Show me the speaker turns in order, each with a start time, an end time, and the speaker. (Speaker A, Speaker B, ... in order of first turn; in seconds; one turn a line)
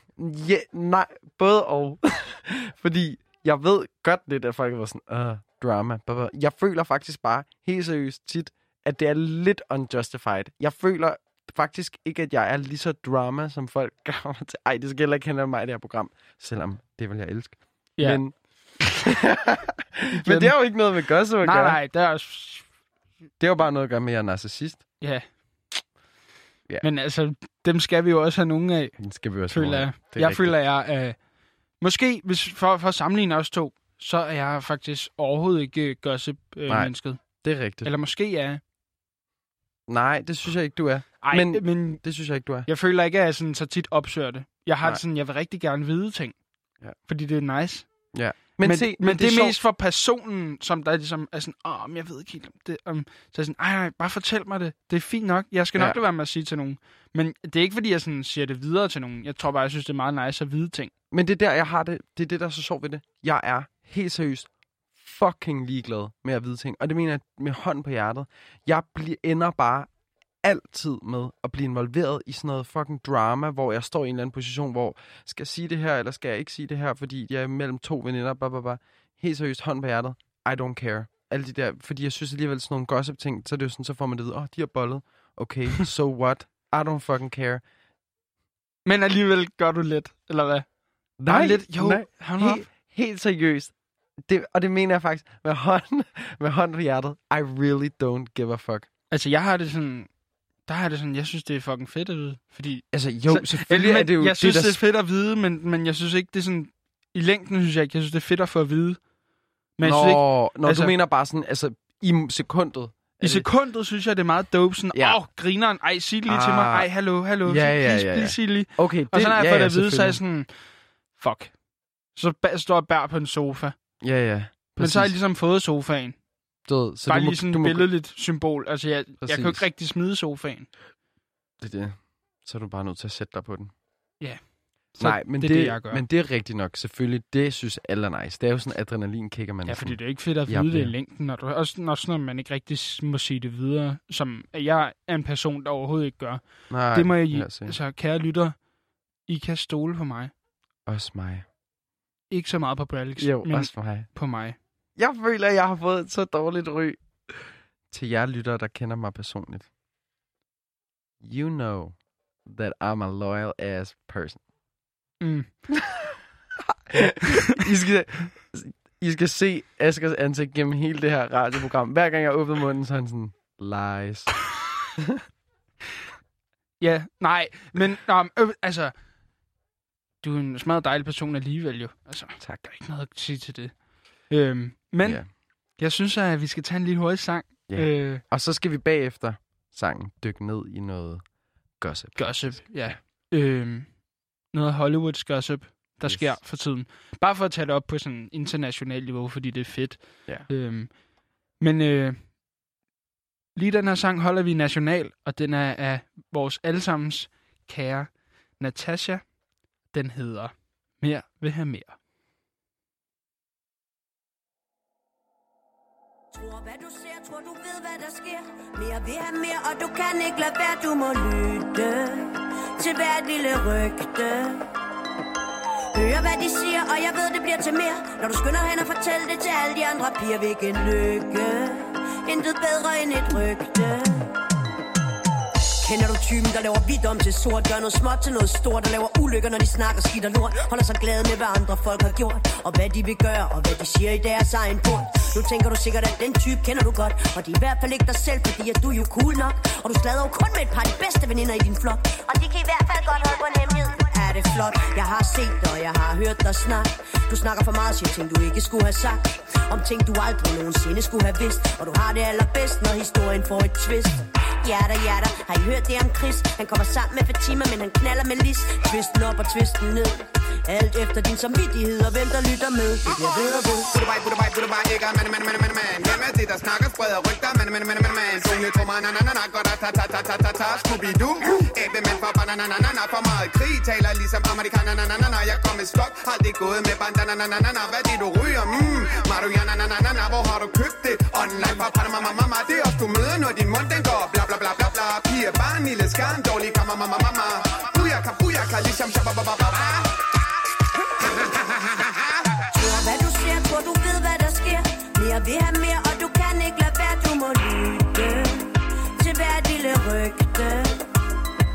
Speaker A: 0.2-18.3
Speaker B: 18.0-18.2
Speaker A: 18.9-21.8
Speaker B: 20.1-20.6
Speaker B: 21.4-22.7
Speaker A: 23.4-24.9
Speaker B: 26.8-31.2
Speaker A: 29.0-30.6
Speaker B: 31.8-37.2
Speaker A: 36.7-37.9
Speaker B: 37.8-38.6
Speaker A: 39.9-42.7
Speaker B: 41.2-42.0
Speaker B: 42.7-46.3
Speaker B: 47.1-48.0
Speaker A: 48.1-49.6
Speaker B: 48.6-60.9
Speaker A: 61.1-69.9
Speaker A: 70.4-87.6
Speaker B: 88.8-90.7
Speaker A: 91.2-93.7
Speaker B: 91.2-92.7
Speaker A: 94.2-98.9
Speaker B: 99.1-100.1
Speaker B: 100.7-109.0
Speaker A: 102.9-104.8
Speaker B: 109.8-110.9
Speaker A: 109.8-113.5
Speaker B: 113.2-120.6
Speaker A: 114.9-115.2
Speaker A: 116.2-120.2
Speaker B: 121.1-121.6
Speaker B: 122.1-123.8
Speaker A: 124.0-125.2
Speaker B: 124.8-126.2
Speaker A: 126.7-127.9
Speaker B: 127.0-130.7
Speaker A: 129.2-129.7
Speaker A: 131.6-133.7
Speaker B: 134.2-136.0
Speaker A: 134.9-140.9
Speaker B: 139.6-148.6
Speaker A: 146.7-147.8
Speaker B: 149.3-150.3
Speaker A: 150.8-151.4
Speaker B: 152.3-154.6
Speaker A: 153.2-154.1
Speaker A: 155.0-159.7
Speaker A: 161.2-164.4
Speaker B: 165.2-165.5
Speaker A: 165.7-166.1
Speaker A: 166.9-174.4
Speaker A: 175.0-175.2
Speaker B: 176.8-178.9
Speaker B: 180.2-183.8
Speaker B: 184.3-188.2
Speaker A: 185.0-185.3
Speaker A: 187.7-191.2
Speaker A: 191.8-193.0
Speaker B: 192.2-194.0
Speaker B: 194.5-202.3
Speaker A: 196.0-196.4
Speaker B: 203.6-209.3
Speaker B: 209.9-211.9
Speaker C: 216.3-224.7
Speaker C: 225.9-234.3
Speaker C: 235.8-273.9
Speaker D: 273.2-300.3
Speaker D: 301.4-302.1
Speaker C: 302.7-311.1